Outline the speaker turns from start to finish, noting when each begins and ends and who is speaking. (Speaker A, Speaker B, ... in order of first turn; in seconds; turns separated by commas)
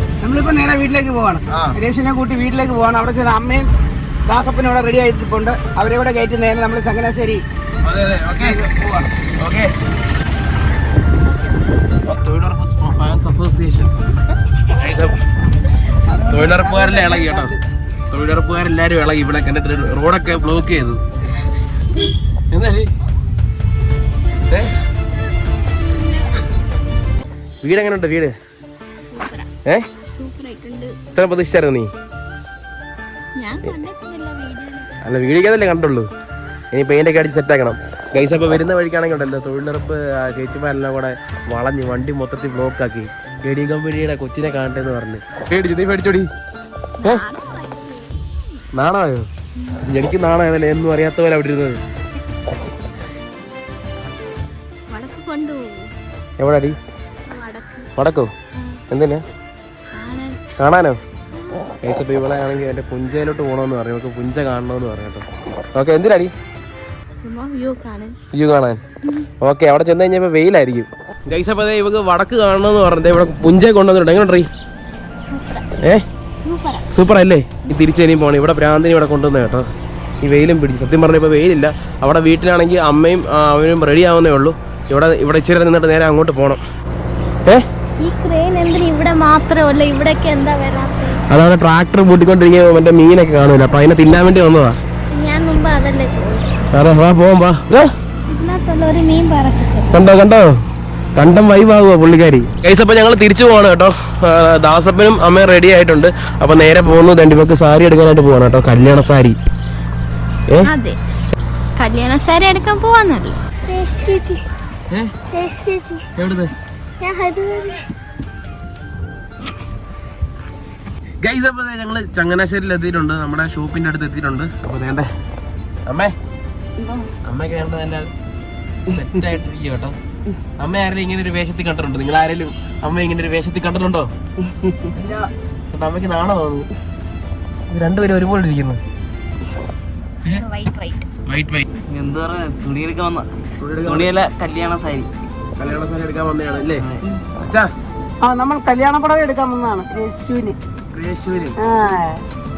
Speaker A: 0.2-3.7, Speaker B: 1.5-1.8, Speaker A: 4.3-7.4, Speaker B: 7.8-8.6, Speaker A: 8.4-9.1, Speaker B: 9.4-9.7, Speaker B: 12.1-13.9, Speaker B: 14.7-15.2, Speaker A: 16.1-17.6, Speaker B: 16.3-17.5, Speaker B: 18.1-21.0, Speaker B: 22.5-22.9, Speaker B: 27.6-28.3, Speaker C: 29.1-29.5, Speaker C: 30.1-31.0, Speaker B: 31.1-31.9, Speaker C: 33.4-35.0, Speaker B: 35.0-36.1, Speaker B: 36.7-46.3, Speaker C: 47.0-48.6, Speaker B: 48.7-49.3, Speaker B: 49.9-51.8, Speaker C: 54.9-55.9, Speaker B: 56.4-56.8, Speaker C: 57.3-57.9, Speaker B: 58.0-58.3, Speaker C: 58.5-58.8, Speaker B: 58.9-59.2, Speaker C: 59.9-60.4, Speaker B: 60.6-61.0, Speaker B: 61.8-66.3, Speaker C: 67.2-68.2, Speaker B: 68.3-68.8, Speaker B: 69.4-74.5, Speaker C: 75.3-75.6, Speaker C: 76.4-76.9, Speaker B: 76.9-79.7, Speaker B: 80.2-86.6, Speaker C: 88.0-91.2, Speaker B: 91.3-94.8, Speaker C: 95.1-96.7, Speaker B: 96.7-97.9, Speaker C: 98.3-100.0, Speaker B: 99.9-100.5, Speaker B: 101.2-109.4, Speaker C: 110.7-111.0, Speaker C: 111.8-114.4, Speaker C: 115.3-116.0, Speaker B: 116.2-116.5, Speaker C: 117.0-117.7, Speaker B: 121.2-125.1, Speaker B: 125.9-126.1, Speaker B: 127.3-128.1, Speaker B: 128.9-129.9, Speaker B: 130.6-134.1, Speaker B: 135.7-136.7, Speaker B: 137.7-138.8, Speaker C: 140.3-141.1, Speaker B: 141.3-141.7, Speaker D: 141.9-143.3, Speaker B: 143.6-144.1, Speaker D: 143.8-145.1, Speaker B: 145.6-147.7, Speaker A: 148.2-150.6, Speaker B: 150.9-151.6, Speaker A: 151.6-152.2